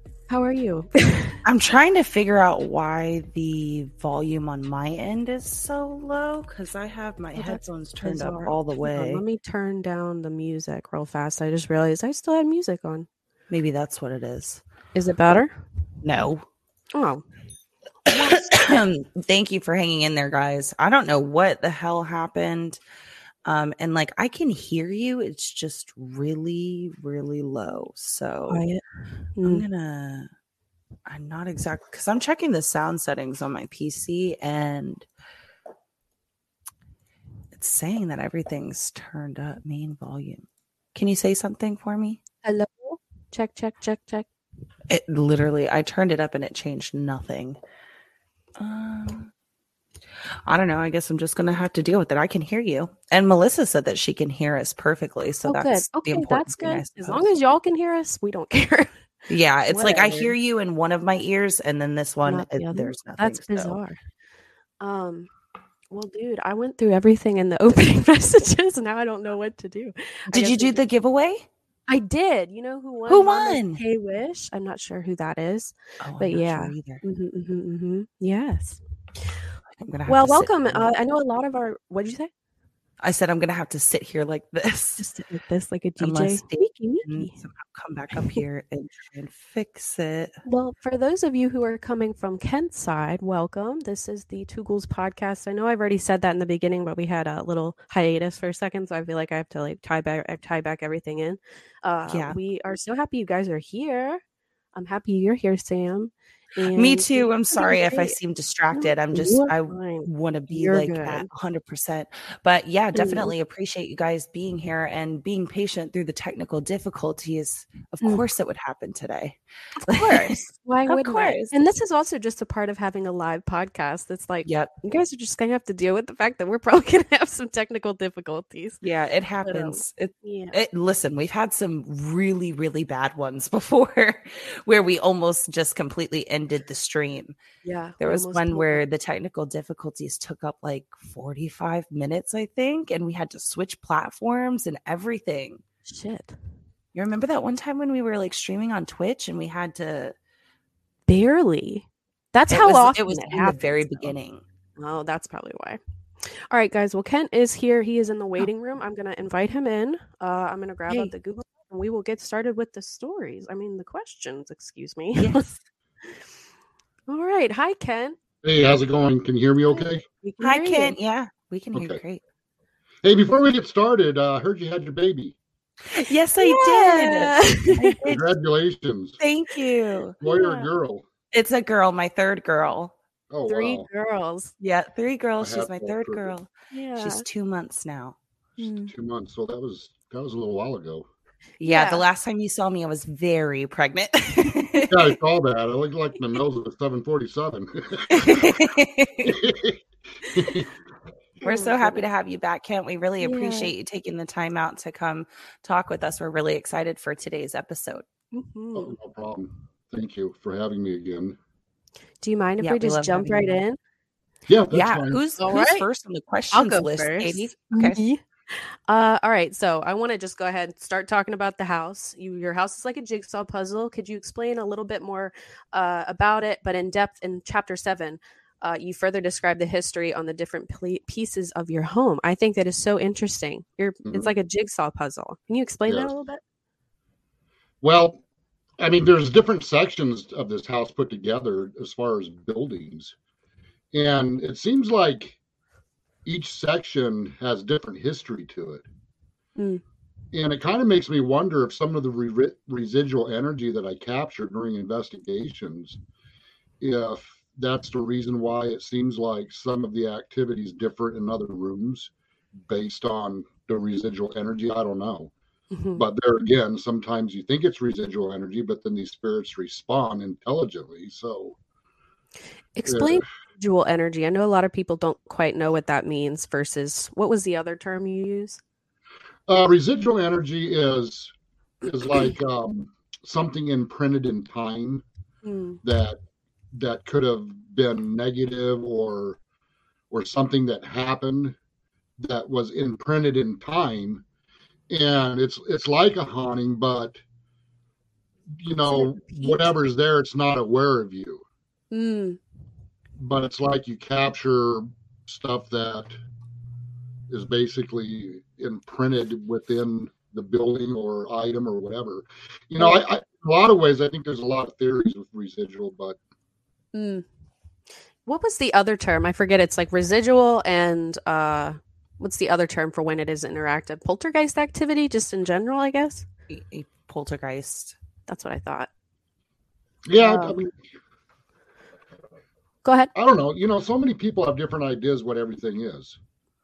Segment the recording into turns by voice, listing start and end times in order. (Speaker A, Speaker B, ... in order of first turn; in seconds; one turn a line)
Speaker A: 0.3-1.4
Speaker B: 1.4-9.2
Speaker A: 7.3-13.1
Speaker B: 13.5-14.6
Speaker A: 14.9-15.5
Speaker B: 16.0-16.4
Speaker A: 16.9-17.2
Speaker B: 18.1-22.8
Speaker A: 18.1-18.4
Speaker B: 23.4-28.6
Speaker A: 28.5-28.8
Speaker A: 29.4-29.6
Speaker B: 29.4-30.3
Speaker B: 31.1-35.0
Speaker B: 37.5-42.2
Speaker A: 42.4-44.2
Speaker B: 44.9-47.6
Speaker B: 48.6-49.3
Speaker B: 50.5-57.3
Speaker A: 55.4-58.9
Speaker B: 59.3-63.8
Speaker A: 59.7-60.3
Speaker A: 62.2-64.0
Speaker A: 64.8-65.3
Speaker A: 65.9-70.8
Speaker B: 70.3-71.5
Speaker A: 71.9-78.8
Speaker B: 73.1-73.8
Speaker B: 76.0-77.0
Speaker B: 79.8-80.9
Speaker A: 80.1-82.3
Speaker B: 83.0-85.1
Speaker A: 85.0-87.3
Speaker B: 86.0-90.3
Speaker A: 90.4-104.2
Speaker B: 102.1-102.4
Speaker A: 104.7-108.2
Speaker B: 106.7-121.5
Speaker A: 108.7-111.3
Speaker A: 112.9-113.3
Speaker A: 119.9-128.8
Speaker B: 124.4-124.7
Speaker B: 128.8-137.3
Speaker A: 129.4-130.6
Speaker A: 137.6-138.8
Speaker B: 138.0-145.6
Speaker A: 145.9-146.3
Speaker B: 146.9-150.1
Speaker A: 151.1-154.1
Speaker B: 152.5-154.4
Speaker A: 154.8-165.4
Speaker B: 165.2-165.6
Speaker A: 167.1-168.2
Speaker C: 168.4-170.1
Speaker A: 169.7-170.9
Speaker B: 170.4-172.2
Speaker C: 171.7-172.0
Speaker C: 173.0-175.3
Speaker B: 175.9-178.2
Speaker A: 176.4-178.0
Speaker C: 178.0-179.2
Speaker B: 179.2-180.2
Speaker C: 180.2-181.0
Speaker A: 180.2-180.7
Speaker B: 181.3-182.9
Speaker C: 183.3-183.9
Speaker A: 183.5-184.5
Speaker B: 184.6-188.7
Speaker C: 185.4-186.3
Speaker A: 186.7-187.2
Speaker A: 188.6-188.9
Speaker C: 188.9-191.1
Speaker B: 191.6-194.9
Speaker A: 191.6-192.0
Speaker C: 194.9-198.5
Speaker B: 198.1-199.4
Speaker C: 199.2-200.7
Speaker A: 201.4-202.0
Speaker B: 201.4-208.1
Speaker A: 203.2-203.7
Speaker A: 208.3-208.9
Speaker C: 208.7-211.4
Speaker A: 212.2-213.8
Speaker B: 212.6-213.6
Speaker C: 214.5-215.2
Speaker A: 214.7-215.8
Speaker B: 214.8-218.0
Speaker A: 216.5-236.4
Speaker C: 234.1-234.3
Speaker C: 237.8-238.2
Speaker C: 238.8-243.1
Speaker C: 243.9-245.4
Speaker C: 246.2-248.8
Speaker A: 249.6-249.8
Speaker C: 250.3-256.0
Speaker C: 256.8-265.3
Speaker A: 265.7-266.0
Speaker C: 266.0-271.6
Speaker A: 272.8-278.6
Speaker C: 272.9-273.2
Speaker C: 279.5-285.0
Speaker A: 285.4-285.8
Speaker C: 285.8-286.2
Speaker C: 286.7-289.4
Speaker C: 290.1-291.6
Speaker C: 292.2-294.2
Speaker C: 294.9-297.2
Speaker C: 298.5-301.4
Speaker A: 298.9-299.7
Speaker A: 301.9-302.4
Speaker C: 303.2-306.2
Speaker C: 307.3-316.2
Speaker A: 316.9-317.2
Speaker A: 318.2-326.2
Speaker B: 326.5-328.0
Speaker A: 328.3-328.9
Speaker C: 330.1-330.8
Speaker A: 330.2-330.6
Speaker A: 332.8-333.1
Speaker C: 333.1-336.2